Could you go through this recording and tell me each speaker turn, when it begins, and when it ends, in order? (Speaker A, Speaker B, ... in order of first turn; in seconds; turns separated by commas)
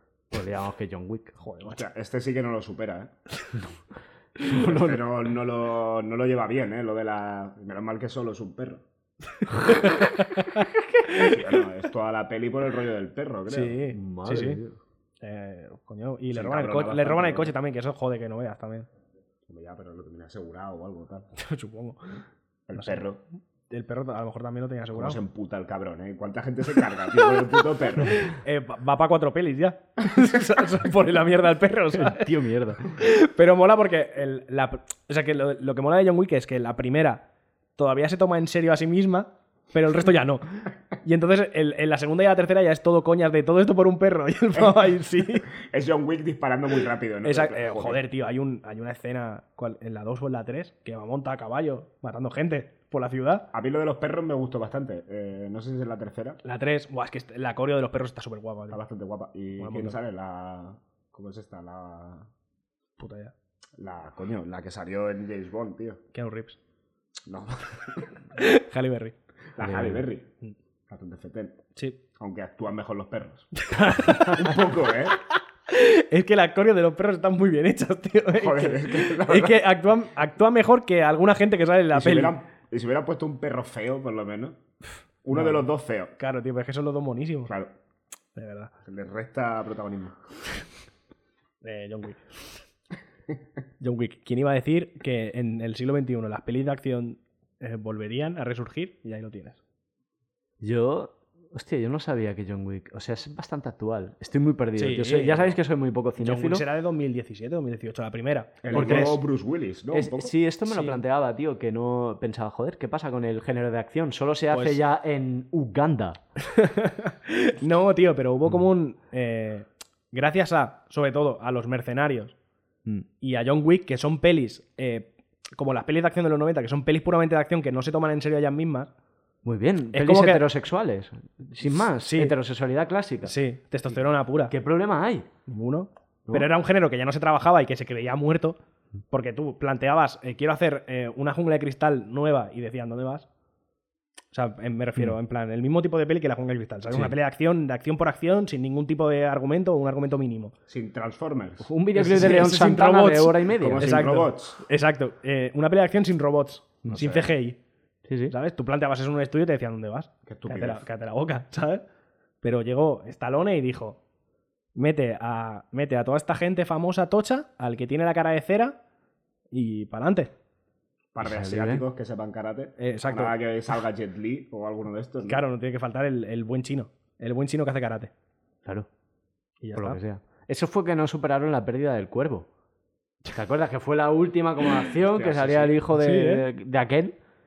Speaker A: 0.3-1.4, Speaker B: 1.4-1.8, Speaker C: 1.6-3.1, Speaker A: 4.4-5.0, Speaker C: 4.5-8.8, Speaker B: 10.6-11.3, Speaker C: 11.1-13.8, Speaker B: 13.5-14.6, Speaker A: 13.9-14.8, Speaker B: 15.2-18.9, Speaker C: 16.3-17.6, Speaker C: 19.5-21.3, Speaker B: 21.4-22.2, Speaker C: 22.7-23.2, Speaker B: 22.8-23.1, Speaker B: 23.7-25.2, Speaker C: 24.9-28.3, Speaker B: 28.4-37.2, Speaker A: 31.9-33.0, Speaker B: 37.8-45.5, Speaker C: 44.5-45.0, Speaker C: 45.5-48.0, Speaker B: 47.2-53.5, Speaker C: 53.5-56.4, Speaker B: 56.4-58.8, Speaker C: 58.7-62.3, Speaker B: 59.6-60.0, Speaker B: 63.0-63.3, Speaker C: 63.8-66.0, Speaker B: 66.1-66.6, Speaker C: 67.3-68.2, Speaker B: 68.4-69.2, Speaker C: 69.6-70.3, Speaker A: 69.6-70.0, Speaker C: 70.9-71.6, Speaker C: 72.2-73.5, Speaker B: 73.6-74.6, Speaker A: 73.7-74.3, Speaker C: 74.1-75.2, Speaker B: 75.7-82.3, Speaker C: 78.3-79.6, Speaker C: 81.9-84.6, Speaker C: 85.2-86.1, Speaker B: 85.3-85.7, Speaker B: 86.2-87.5, Speaker C: 87.5-87.7, Speaker B: 88.4-88.7, Speaker C: 88.8-90.2, Speaker B: 91.6-92.5, Speaker B: 93.8-99.6, Speaker A: 100.6-106.6, Speaker B: 104.8-105.6, Speaker B: 106.2-109.2, Speaker C: 108.6-110.3, Speaker A: 108.7-109.2, Speaker A: 109.9-116.2, Speaker B: 110.7-111.0, Speaker B: 114.5-114.8, Speaker B: 116.5-122.4, Speaker B: 123.2-128.9, Speaker A: 129.4-133.3, Speaker B: 129.9-130.4, Speaker B: 131.8-132.3, Speaker B: 133.2-134.5, Speaker A: 134.5-135.3, Speaker B: 135.5-138.6, Speaker B: 139.1-143.3, Speaker B: 144.3-150.5, Speaker C: 150.7-151.7, Speaker A: 151.6-153.9, Speaker B: 151.9-157.6, Speaker C: 153.6-154.6, Speaker C: 156.9-157.3, Speaker A: 158.1-158.3, Speaker B: 158.3-161.8, Speaker C: 160.3-160.9, Speaker B: 162.4-164.0, Speaker B: 164.8-168.8, Speaker B: 169.5-170.3, Speaker C: 171.1-175.4, Speaker A: 171.2-171.8, Speaker B: 172.8-173.3, Speaker B: 175.3-178.1, Speaker B: 179.6-180.0, Speaker A: 179.8-182.5, Speaker A: 183.3-187.2, Speaker C: 185.0-185.8, Speaker B: 185.9-186.5